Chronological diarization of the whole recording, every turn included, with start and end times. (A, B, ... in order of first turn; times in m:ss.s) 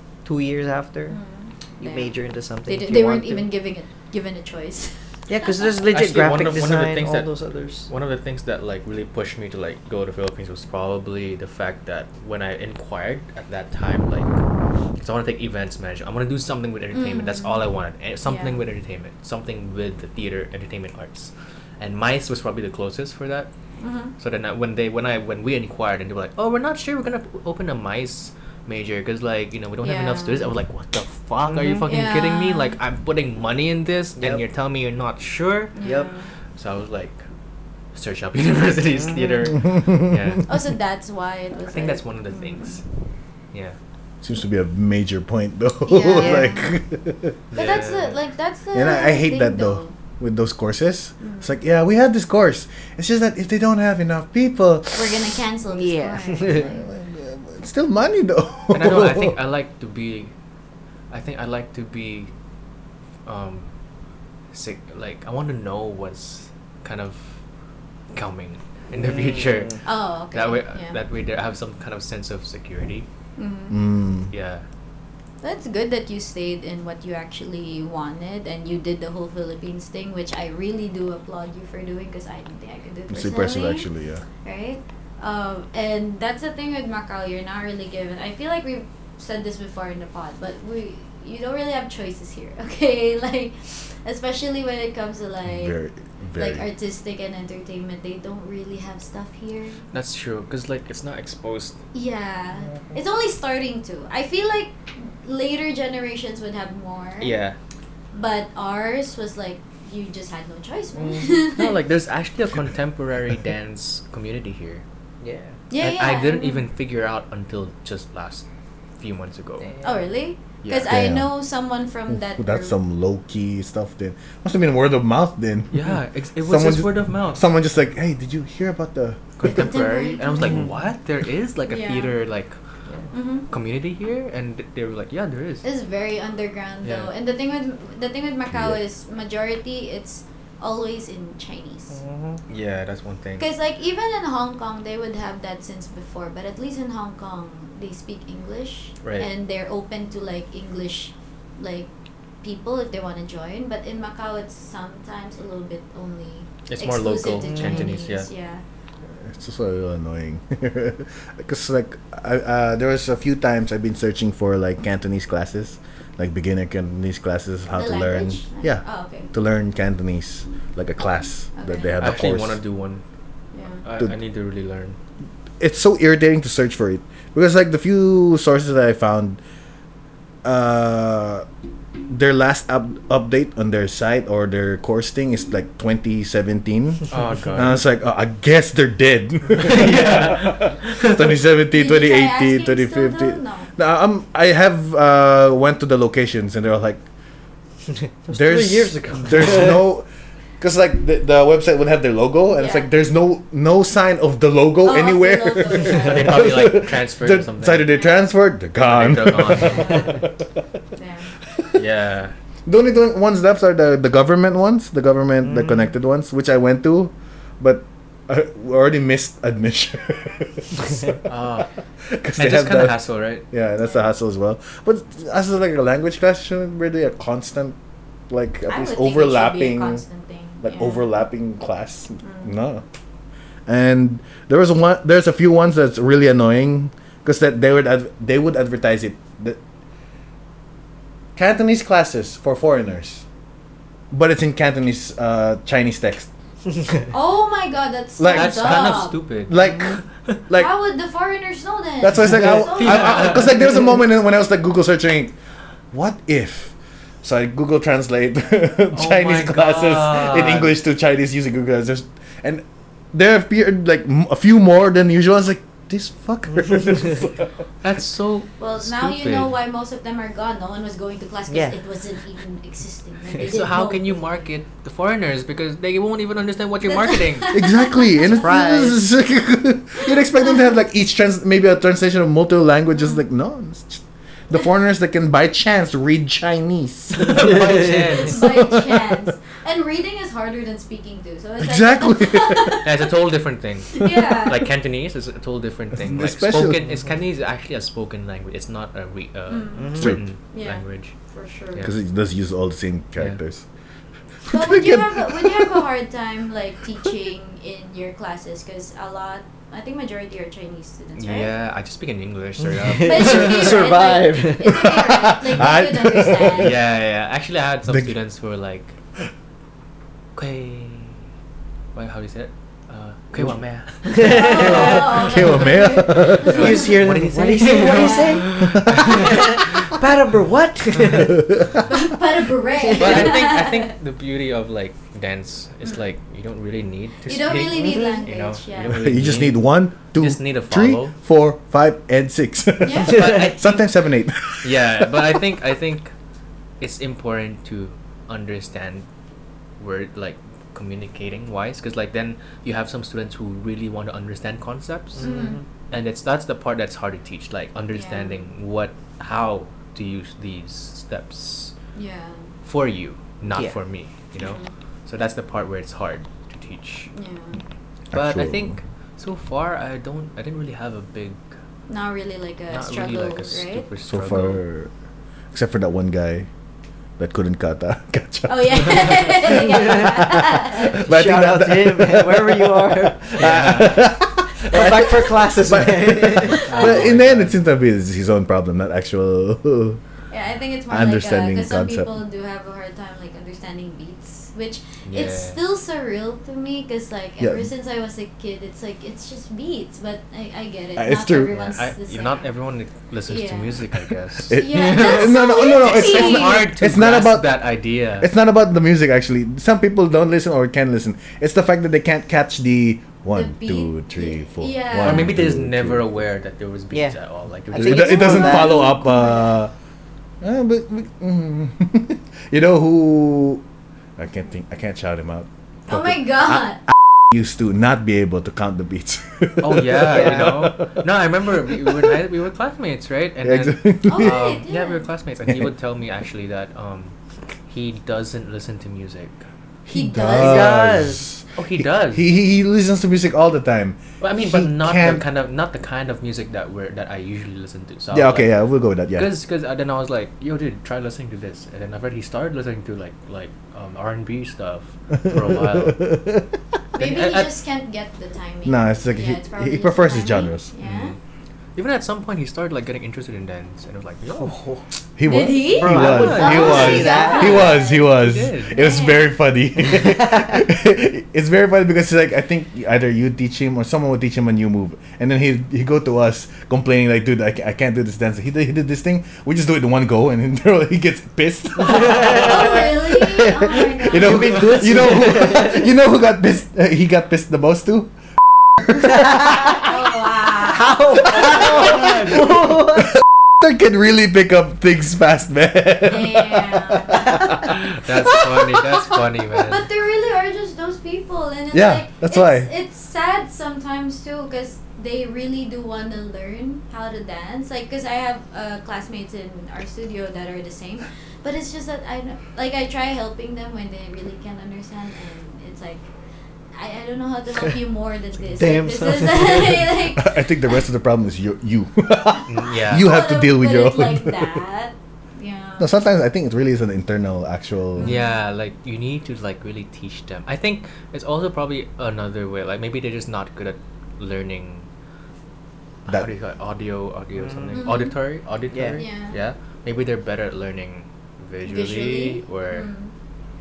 0:00.2-0:01.2 A
0:01.1-0:02.1 B
0:01.8-0:03.5 A
0:02.7-0:05.0 B
0:05.3-0:07.9 A
0:05.9-0:14.4 C
0:15.0-0:23.5 C
0:16.9-0:17.7 B
0:18.2-0:18.6 B
0:23.8-0:24.1 B
0:24.2-0:35.8 C
0:29.8-0:30.5 B
0:31.5-0:31.9 A
0:31.9-0:32.8 B
0:35.8-0:36.3 B
0:35.8-0:36.1 A
0:36.6-0:37.2 C
0:37.9-0:40.5 C
0:39.0-0:39.2 A
0:39.1-0:39.5 B
0:40.5-0:42.8 B
0:41.7-0:42.8 C
0:43.5-0:43.8 C
0:44.2-0:47.4 D
0:45.8-0:46.7 B
0:46.2-0:46.5 A
0:47.5-0:50.0 B
0:47.5-0:48.2 C
0:48.7-0:55.3 D
0:51.2-0:51.5 B
0:54.9-0:56.9 B
0:55.7-0:56.6 A
0:56.4-0:59.4 D
0:58.7-1:00.3 C
1:01.1-1:02.3 C
1:03.3-1:03.7 C
1:04.5-1:07.4 C
1:08.1-1:13.1 C
1:08.9-1:09.8 A
1:09.8-1:11.0 B
1:13.4-1:13.8 B
1:13.7-1:14.3 D
1:14.3-1:14.6 C
1:15.4-1:23.9 B
1:23.1-1:24.2 D
1:24.4-1:35.8 B
1:35.4-1:36.6 D
1:36.4-1:39.8 B
1:39.9-1:41.8 C
1:41.9-1:47.4 B
1:47.2-1:47.6 C
1:48.1-1:51.8 B
1:51.0-1:51.3 A
1:51.5-1:54.8 C
1:55.2-1:55.6 A
1:55.7-1:56.7 B
1:55.8-1:58.4 C
1:59.0-1:59.7 C
1:59.6-2:00.1 A
1:59.8-2:02.8 B
2:00.6-2:00.9 C
2:00.8-2:01.3 D
2:02.1-2:09.5 D
2:05.7-2:07.4 C
2:09.4-2:12.6 C
2:09.4-2:10.7 B
2:11.7-2:12.2 B
2:13.1-2:13.5 B
2:13.5-2:15.6 C
2:15.6-2:22.0 B
2:16.8-2:17.1 C
2:18.5-2:18.8 D
2:21.9-2:22.4 A
2:22.5-2:23.4 C
2:23.4-2:31.9 B
2:29.0-2:29.3 C
2:32.4-2:38.6 B
2:36.7-2:38.3 C
2:37.4-2:37.9 A
2:39.2-2:52.6 D
2:47.7-2:49.3 B
2:51.6-2:52.0 B
2:52.0-2:53.0 C
2:53.5-2:53.8 B
2:53.8-2:55.0 C
2:55.6-2:59.4 D
3:00.4-3:01.5 D
3:02.1-3:17.0 D
3:07.1-3:07.8 C
3:09.6-3:11.4 C
3:11.7-3:13.7 B
3:18.3-3:19.9 A
3:18.3-3:20.1 D
3:20.6-3:30.4 D
3:22.5-3:22.9 B
3:24.8-3:26.4 B
3:25.8-3:27.9 C
3:27.9-3:28.2 B
3:28.8-3:30.1 C
3:29.6-3:30.2 B
3:31.0-3:31.3 B
3:31.7-3:32.3 C
3:32.7-3:41.2 D
3:35.4-3:35.9 A
3:41.3-3:41.7 C
3:42.1-3:43.0 D
3:42.4-3:43.4 C
3:43.5-3:47.8 D
3:48.3-3:50.0 D
3:48.7-3:51.1 B
3:50.6-3:52.8 D
3:52.2-3:52.5 B
3:53.7-3:59.6 D
4:01.4-4:03.2 D
4:04.1-4:06.3 D
4:07.1-4:09.2 B
4:08.2-4:10.7 D
4:08.3-4:10.4 C
4:10.5-4:13.7 B
4:12.0-4:15.3 D
4:12.4-4:13.8 C
4:15.9-4:27.5 D
4:18.9-4:20.8 C
4:27.8-4:29.5 C
4:28.6-4:34.2 B
4:31.5-4:31.8 A
4:33.4-4:37.6 C
4:36.8-4:38.8 B
4:37.5-4:49.2 D
4:38.4-4:39.0 A
4:40.0-4:40.7 B
4:47.2-4:48.5 C
4:47.4-4:47.9 A
4:48.2-4:53.0 B
4:51.6-4:52.8 D
4:52.8-5:01.1 C
4:54.0-4:54.6 B
4:56.0-4:56.9 D
4:59.5-5:01.9 B
4:59.8-5:00.1 A
5:00.0-5:00.2 D
5:01.8-5:03.6 D
5:04.4-5:05.8 D
5:04.5-5:11.5 B
5:11.2-5:13.9 C
5:12.6-5:15.0 A
5:13.0-5:16.8 B
5:15.0-5:16.8 D
5:16.5-5:19.0 C
5:20.4-5:21.2 C
5:21.9-5:25.7 C
5:24.0-5:25.2 A
5:24.2-5:27.0 B
5:24.6-5:26.8 D
5:26.4-5:29.9 C
5:26.4-5:31.8 A
5:27.6-5:28.5 B
5:28.6-5:29.2 D
5:31.4-5:31.8 D
5:31.9-5:33.9 B
5:32.8-5:33.3 A
5:33.0-5:41.2 C
5:37.2-5:39.0 B
5:37.7-5:38.2 A
5:38.9-5:45.4 D
5:42.8-5:43.2 B
5:43.0-5:43.8 C
5:43.1-5:43.5 A
5:44.6-5:46.1 C
5:46.8-5:49.0 C
5:49.8-6:01.7 C
5:55.2-5:55.6 A
5:55.2-5:55.6 B
5:57.9-5:58.4 B
6:02.0-6:02.5 B
6:02.6-6:07.1 C
6:04.4-6:04.7 B
6:07.1-6:07.6 B
6:08.1-6:11.4 C
6:08.1-6:08.8 D
6:11.9-6:13.9 B
6:12.7-6:14.6 C
6:14.1-6:14.9 D
6:15.5-6:16.5 D
6:17.2-6:30.0 D
6:18.5-6:21.0 B
6:19.6-6:20.1 A
6:21.0-6:23.6 A
6:23.4-6:24.1 C
6:24.7-6:26.8 A
6:26.6-6:27.6 C
6:26.7-6:27.0 B
6:30.3-6:42.5 B
6:30.9-6:32.1 D
6:35.1-6:35.6 C
6:37.4-6:37.7 D
6:41.0-6:41.6 D
6:41.5-6:48.3 C
6:43.3-6:43.8 B
6:44.5-6:47.6 D
6:44.5-6:46.7 B
6:48.2-6:56.0 D
6:53.3-6:55.3 B
6:55.0-6:58.1 C
6:57.7-6:58.9 A
6:57.8-6:59.7 D
6:57.8-6:59.6 B
7:00.4-7:03.6 D
7:04.2-7:10.9 D
7:05.9-7:06.8 B
7:09.6-7:17.2 C
7:10.1-7:10.5 A
7:11.7-7:12.2 D
7:13.4-7:14.4 D
7:14.0-7:15.1 B
7:17.7-7:19.4 C
7:19.9-7:25.2 D
7:19.9-7:20.8 B
7:20.3-7:21.3 A
7:21.6-7:22.3 C
7:24.2-7:28.5 C
7:28.1-7:29.3 D
7:29.1-7:36.0 C
7:35.2-7:36.5 D
7:37.0-7:41.2 B
7:37.0-7:37.6 C
7:38.6-7:40.7 D
7:40.8-7:41.2 C
7:41.8-7:44.6 C
7:44.4-7:44.8 A
7:45.2-8:08.1 D
7:45.2-7:49.3 B
7:45.6-7:47.7 A
7:45.9-7:48.8 C
8:01.9-8:02.9 A
8:02.0-8:04.5 B
8:04.1-8:05.9 A
8:09.9-8:11.1 B
8:10.6-8:13.0 A
8:11.6-8:12.7 D
8:13.6-8:17.8 D
8:16.1-8:17.4 B
8:17.7-8:19.9 C
8:19.6-8:36.0 B
8:21.7-8:22.7 D
8:36.7-8:40.5 B
8:38.5-8:39.9 A
8:40.2-8:44.6 D
8:42.5-8:43.1 C
8:42.9-8:46.0 B
8:45.8-8:48.2 D
8:48.0-8:48.4 B
8:48.0-8:54.9 C
8:56.1-9:02.9 C
8:57.4-8:57.9 A
8:57.7-8:58.2 B
8:58.7-8:59.0 A
8:58.9-8:59.4 B
9:01.6-9:03.1 B